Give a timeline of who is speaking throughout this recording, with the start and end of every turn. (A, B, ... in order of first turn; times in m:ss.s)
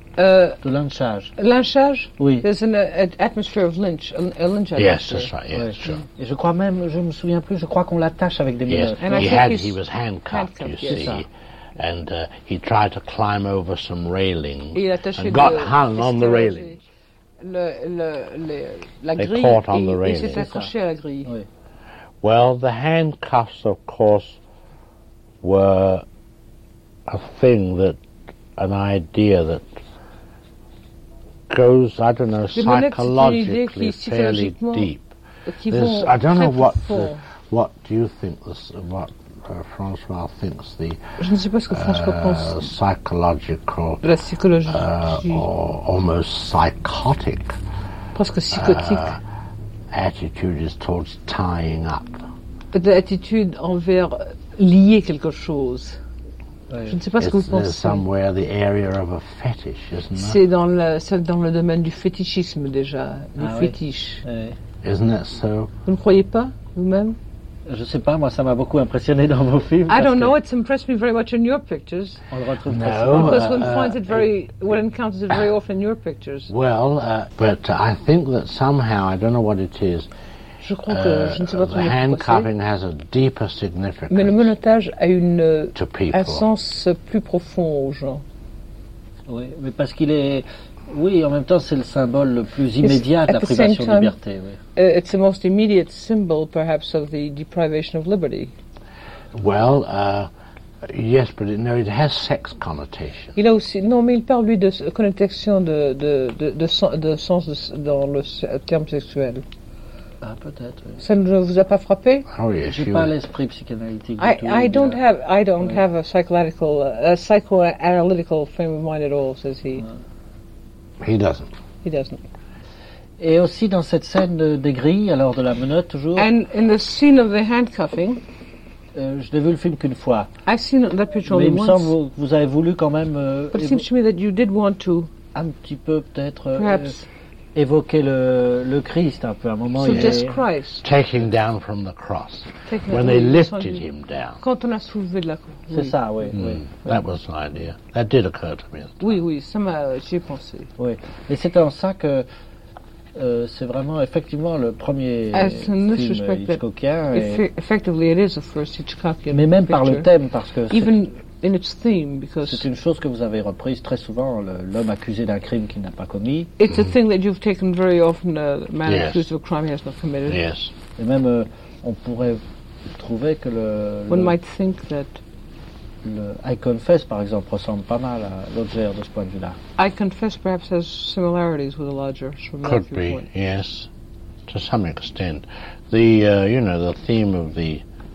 0:00.2-0:00.6 A
0:00.6-0:01.3 B
0:01.4-0:05.3 A
0:02.2-0:02.5 B
0:04.8-0:06.0 C
0:05.5-0:09.3 B
0:08.7-0:16.8 C
0:09.0-0:11.2 A
0:14.7-0:16.8 A
0:17.4-0:21.3 A
0:19.2-0:20.4 C
0:20.4-0:20.7 B
0:22.2-0:24.4 C
0:25.4-0:26.0 C
0:27.1-0:28.0 C
0:28.6-0:29.8 C
0:31.5-0:35.2 C
0:32.6-0:34.9 A
0:35.5-0:37.2 A
0:35.7-0:41.0 C
0:41.2-0:42.6 A
0:41.7-0:44.0 C
0:44.0-0:45.4 A
0:44.7-0:47.6 C
0:48.2-0:49.1 A
0:48.5-0:49.2 C
0:49.9-0:52.3 C
0:52.7-0:56.0 A
0:56.7-0:57.0 B
0:56.9-0:58.1 A
0:57.2-1:00.4 C
1:00.2-1:04.2 A
1:03.4-1:04.6 B
1:04.8-1:05.7 C
1:05.8-1:07.2 A
1:07.7-1:10.4 B
1:09.9-1:12.2 A
1:12.3-1:13.6 B
1:12.6-1:14.3 C
1:13.1-1:16.5 A
1:16.5-1:20.1 C
1:20.6-1:22.5 A
1:20.9-1:24.5 C
1:24.1-1:28.2 A
1:25.7-1:26.4 C
1:29.3-1:34.6 B
1:32.8-1:34.2 A
1:34.8-1:38.5 A
1:39.3-1:40.3 C
1:40.9-1:43.4 C
1:43.4-1:49.4 A
1:50.2-1:51.0 B
1:51.0-1:52.2 A
1:52.3-1:53.1 C
1:52.6-1:55.0 B
1:54.2-1:59.8 A
2:01.0-2:01.5 C
2:01.8-2:02.2 A
2:03.2-2:06.3 B
2:06.2-2:08.2 A
2:08.9-2:10.3 B
2:10.4-2:11.9 A
2:11.2-2:13.8 B
2:13.5-2:15.1 A
2:15.4-2:17.0 B
2:16.5-2:17.0 A
2:17.6-2:20.4 B
2:19.7-2:20.8 A
2:20.8-2:24.4 C
2:22.7-2:23.8 A
2:24.4-2:26.4 A
2:25.7-2:26.7 B
2:26.3-2:29.1 C
2:29.0-2:30.7 A
2:30.8-2:32.3 B
2:33.2-2:37.4 B
2:35.3-2:40.1 A
2:39.3-2:40.9 B
2:40.7-2:42.7 A
2:42.5-2:46.5 B
2:46.6-2:50.4 A
2:48.8-2:49.2 C
2:50.3-2:50.8 C
2:51.0-2:52.4 B
2:52.9-2:54.4 B
2:54.1-2:55.2 A
2:56.0-2:59.6 B
2:59.8-3:03.2 A
3:02.6-3:03.9 C
3:04.5-3:07.8 C